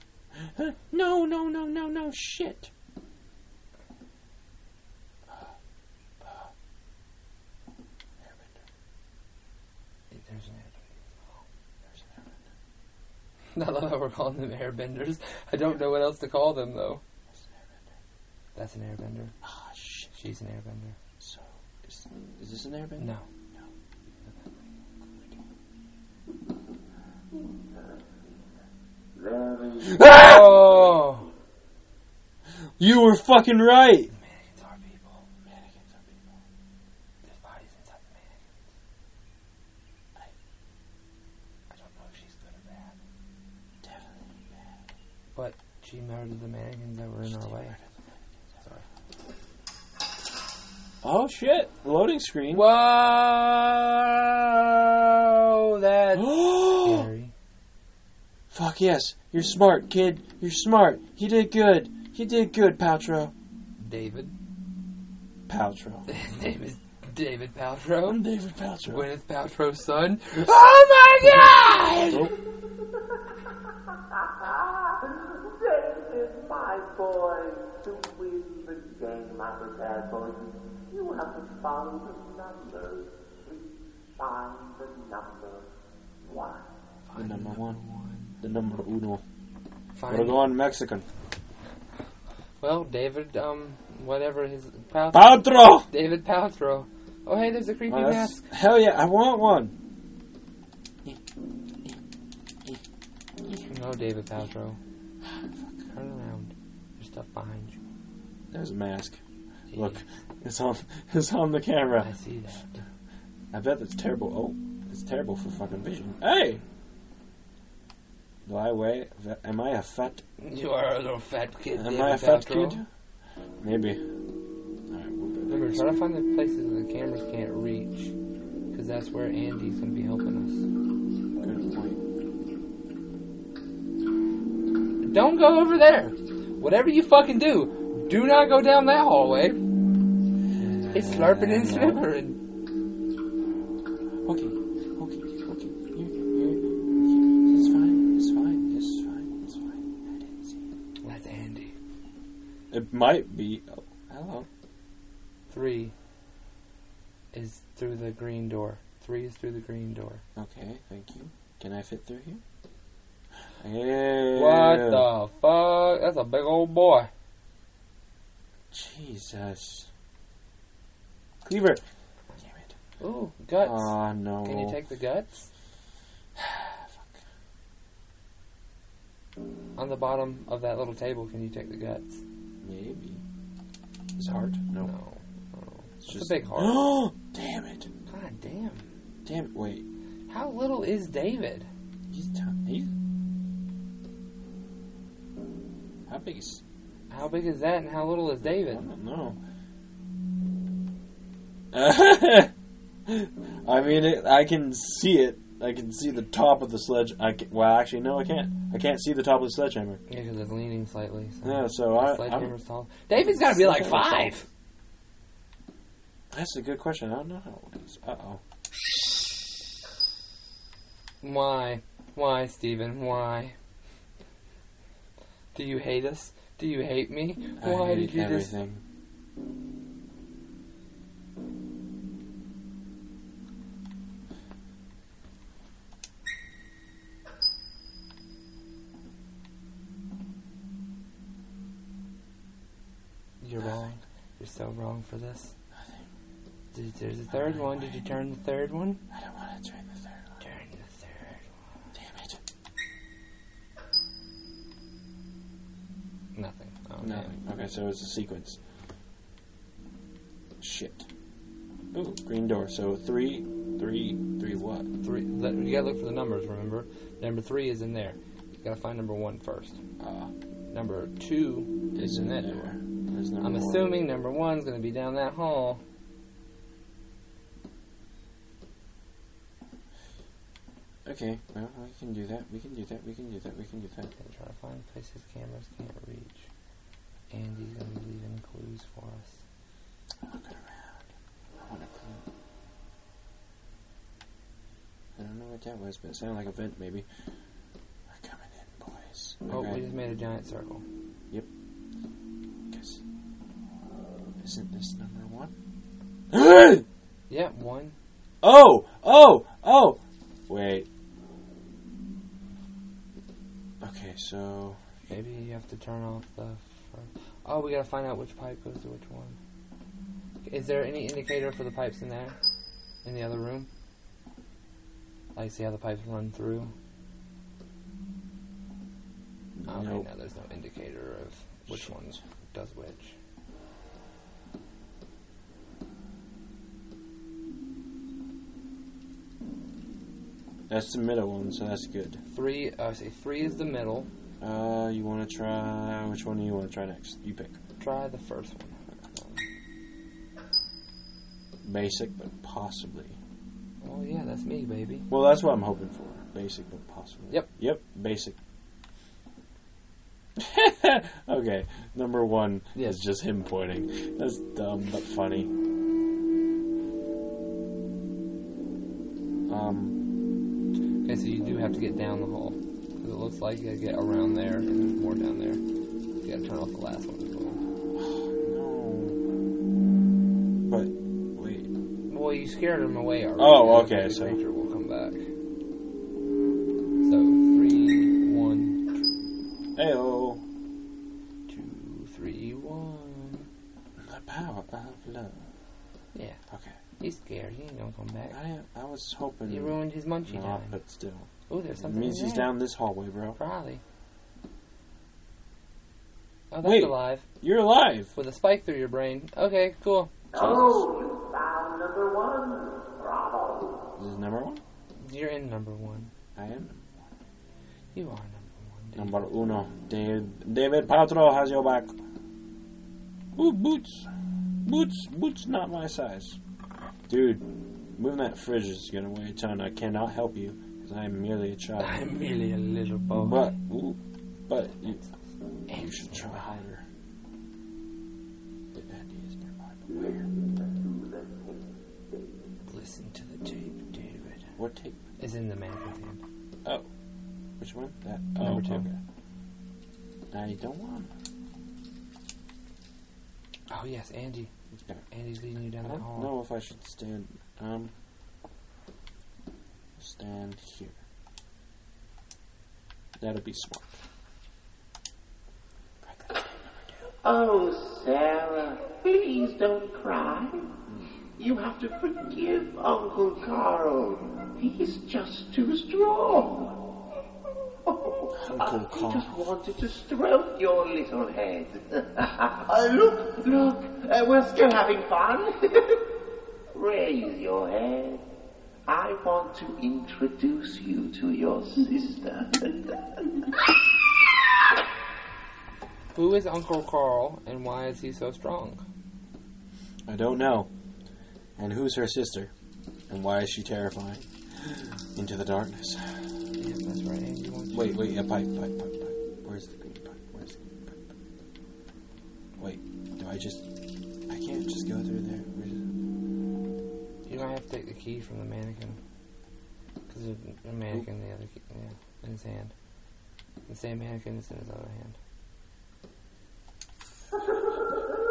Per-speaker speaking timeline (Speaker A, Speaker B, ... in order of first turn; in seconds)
Speaker A: 0.3-2.7, 6.2-6.5, 8.2-8.6, 11.9-12.3, 17.3-17.6, 19.4-20.1, 21.2-23.6, 29.8-30.8, 32.8-34.1, 35.5-36.2, 43.8-44.6, 47.4-47.8, 51.0-52.6, 56.1-57.1, 58.5-63.3, 65.5-66.1, 68.0-69.0, 71.2-71.5, 72.1-72.3, 87.1-87.8, 88.4-89.2, 90.1-91.0, 95.1-95.9, 97.9-99.7, 108.5-109.2, 109.7-112.1, 113.5-116.6, 118.4-120.2, 121.7-122.9, 123.6-124.0, 124.9-126.0, 131.4-132.0, 140.5-142.1, 144.2-150.6, 152.7-154.5, 160.3-162.4, 163.6-165.1, 168.7-169.9, 171.4-171.8, 172.4-172.7, 173.6-174.8, 176.4-177.2, 182.6-183.2, 184.2-184.9, 186.0-187.9, 189.2-189.8, 192.1-192.9, 196.1-196.6, 198.4-199.4, 201.7-202.5, 203.1-210.0, 211.4-212.5, 213.1-214.4, 216.3-218.4, 227.6-228.8, 245.7-246.0, 247.3-248.0, 249.1-250.2, 251.9-252.4, 257.0-258.6, 260.6-261.1, 261.9-264.9, 270.0-270.3, 271.9-273.9, 281.0-284.1, 290.2-291.1, 291.6-292.2, 295.1-297.1, 298.1-299.8, 302.7-303.0, 304.4-305.5, 306.3-306.8, 308.4-310.9, 313.8-314.8, 329.6-330.1, 331.7-332.2, 340.7-342.2, 344.4-347.6, 351.6-353.2, 355.1-358.4, 360.4-365.5, 369.5-370.0, 378.0-379.2, 380.7-381.7, 383.4-384.4, 389.8-390.4, 394.0-395.4, 396.5-396.8, 398.3-403.4, 406.6-408.1, 410.3-410.8, 414.0-414.6, 416.4-417.1, 418.9-421.9, 423.4-424.1, 424.6-426.4, 427.1-427.4, 427.9-432.0, 433.1-435.0, 435.7-436.8, 438.7-440.1, 444.6-445.0, 447.6-449.0, 450.3-451.1, 454.7-455.0, 455.8-457.9, 460.0-461.0, 463.2-464.0, 466.0-467.1, 478.4-479.5, 500.1-500.7, 501.6-502.5, 503.1-506.3, 507.7-511.1, 512.6-513.7, 514.3-515.8
Speaker B: 10.1-11.4, 13.5-17.0, 18.5-19.3, 20.1-20.9, 23.0-23.2, 30.0-31.3, 34.1-35.2, 37.2-38.3, 41.7-42.9, 45.3-47.8, 52.5-57.3, 63.8-64.3, 66.1-68.2, 68.9-72.3, 87.1-88.3, 90.0-90.5, 92.6-98.5, 103.7-104.8, 105.9-107.8, 109.7-110.0, 112.0-112.8, 120.4-122.8, 125.5-128.1, 128.7-130.6, 135.0-139.6, 140.9-142.4, 151.0-151.7, 155.5-155.9, 157.3-160.2, 164.3-167.1, 173.0-175.5, 179.8-182.2, 184.8-186.8, 188.1-188.8, 190.3-191.7, 197.1-198.8, 210.1-214.4, 221.2-223.5, 225.5-228.5, 243.4-245.5, 246.7-249.0, 250.4-251.4, 256.3-257.3, 265.0-269.8, 270.7-272.7, 273.4-275.8, 284.2-286.5, 287.3-289.4, 299.5-300.8, 307.3-307.9, 315.1-319.4, 320.4-322.4, 323.0-323.7, 325.3-326.7, 329.6-333.1, 342.3-344.1, 347.8-349.4, 353.8-355.1, 362.7-363.0, 371.0-375.6, 376.2-377.6, 382.1-385.2, 387.0-388.8, 391.5-393.5, 397.0-398.4, 399.5-400.7, 401.5-402.5, 403.4-403.8, 406.5-407.2, 408.1-410.1, 415.0-416.1, 417.9-419.2, 431.8-433.5, 435.7-436.5, 442.6-444.4, 445.2-446.2, 448.4-448.9, 453.7-454.5, 455.1-456.3, 496.1-498.8, 506.6-508.1, 517.3-519.0, 520.1-522.7, 523.7-525.1
Speaker C: 27.7-28.3, 29.1-30.0, 74.4-85.7, 86.2-86.7, 410.3-413.9, 439.9-442.5, 467.2-470.7, 471.4-476.8, 477.8-486.0, 486.7-488.2, 488.9-493.0